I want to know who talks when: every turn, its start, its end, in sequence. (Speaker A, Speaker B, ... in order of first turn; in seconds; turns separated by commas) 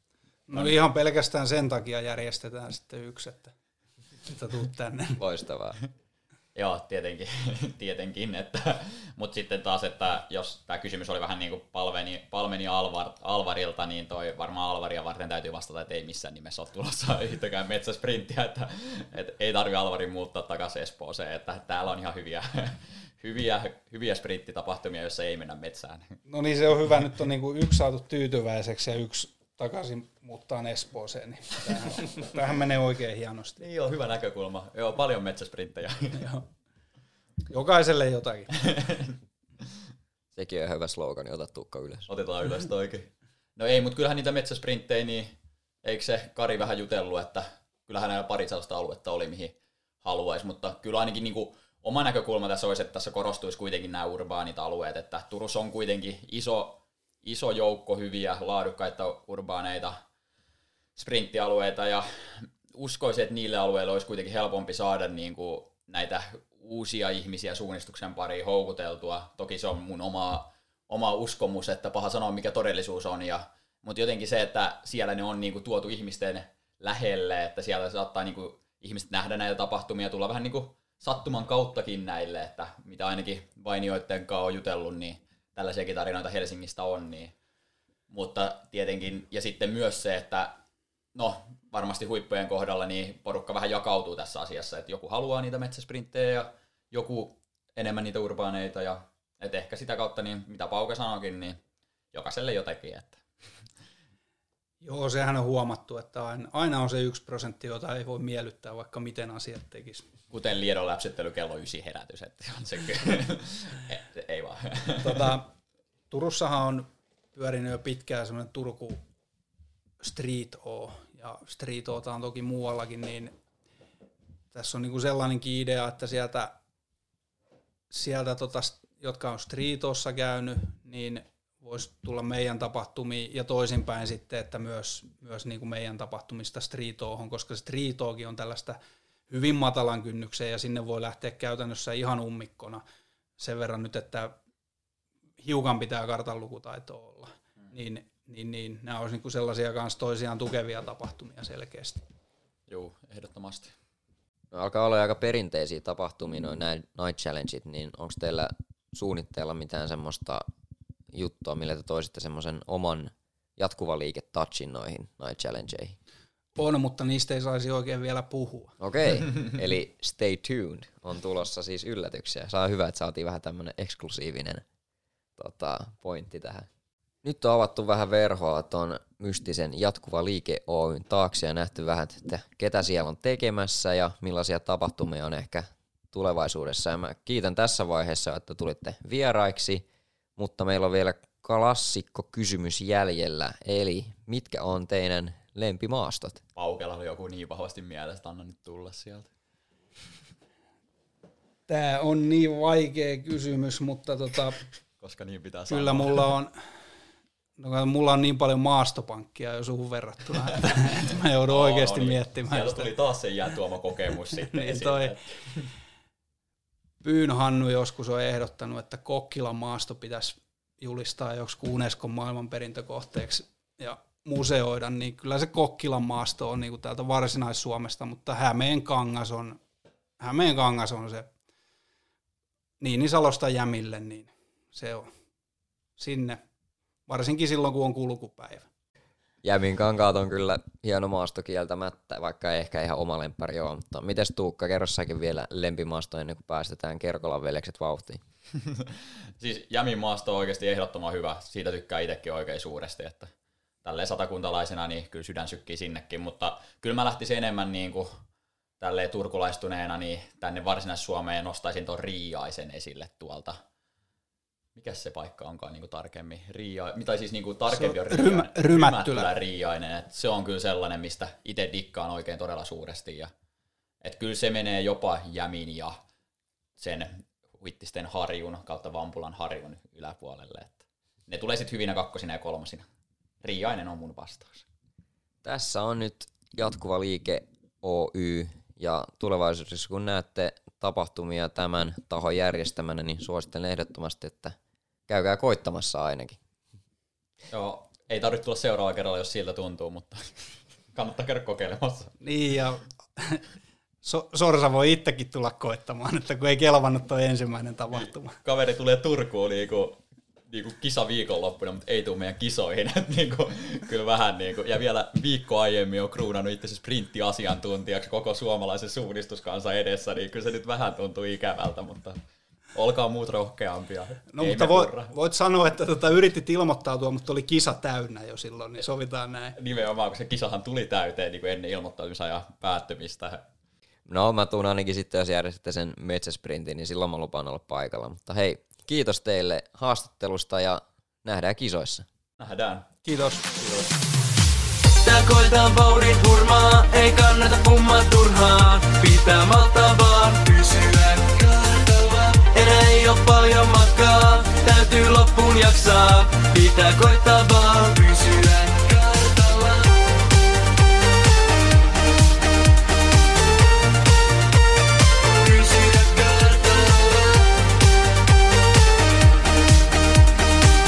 Speaker A: 0.5-3.5, Speaker A: 4.2-5.2, Speaker B: 5.2-5.8, Speaker C: 6.5-26.2, Speaker A: 26.3-33.6, Speaker C: 33.6-36.2, Speaker A: 36.2-36.4, Speaker A: 37.5-38.6, Speaker C: 38.6-39.1, Speaker B: 40.4-42.1, Speaker C: 42.1-60.0, Speaker C: 61.0-87.3, Speaker C: 88.1-90.6, Speaker C: 91.2-101.6, Speaker C: 102.1-103.2, Speaker A: 104.8-110.1, Speaker C: 110.3-115.4, Speaker A: 115.0-115.5, Speaker A: 116.1-119.0, Speaker A: 120.0-123.3, Speaker A: 124.5-126.5, Speaker A: 127.9-138.8, Speaker A: 139.3-142.8, Speaker A: 143.4-144.3, Speaker A: 145.4-152.0, Speaker C: 152.7-153.7, Speaker B: 154.5-160.5, Speaker B: 161.1-166.0, Speaker A: 166.6-168.8, Speaker B: 168.8-174.6, Speaker B: 175.4-176.7, Speaker B: 177.2-189.8, Speaker B: 190.4-196.4, Speaker C: 196.6-199.3, Speaker A: 201.7-204.7, Speaker C: 205.0-206.3, Speaker A: 205.7-206.5, Speaker A: 207.6-212.9, Speaker C: 211.5-215.7, Speaker A: 214.4-215.2, Speaker A: 217.0-229.6, Speaker A: 230.2-231.3, Speaker A: 232.8-235.1, Speaker A: 236.0-236.4, Speaker A: 237.1-238.7, Speaker B: 239.4-248.2, Speaker C: 249.4-253.3, Speaker C: 253.8-258.2, Speaker C: 258.8-263.6, Speaker C: 264.8-273.3, Speaker A: 267.7-269.3, Speaker C: 274.0-276.0, Speaker C: 276.8-282.9, Speaker C: 283.4-284.7, Speaker B: 285.4-294.6, Speaker B: 295.1-296.4, Speaker C: 297.5-300.4, Speaker C: 300.9-302.1, Speaker A: 302.2-303.4, Speaker A: 304.0-308.4, Speaker C: 307.9-322.2, Speaker C: 322.7-325.1, Speaker A: 324.3-329.6, Speaker C: 329.6-333.4, Speaker B: 334.1-342.1, Speaker C: 342.4-342.9, Speaker A: 343.1-343.8, Speaker D: 345.0-359.9, Speaker D: 365.4-367.5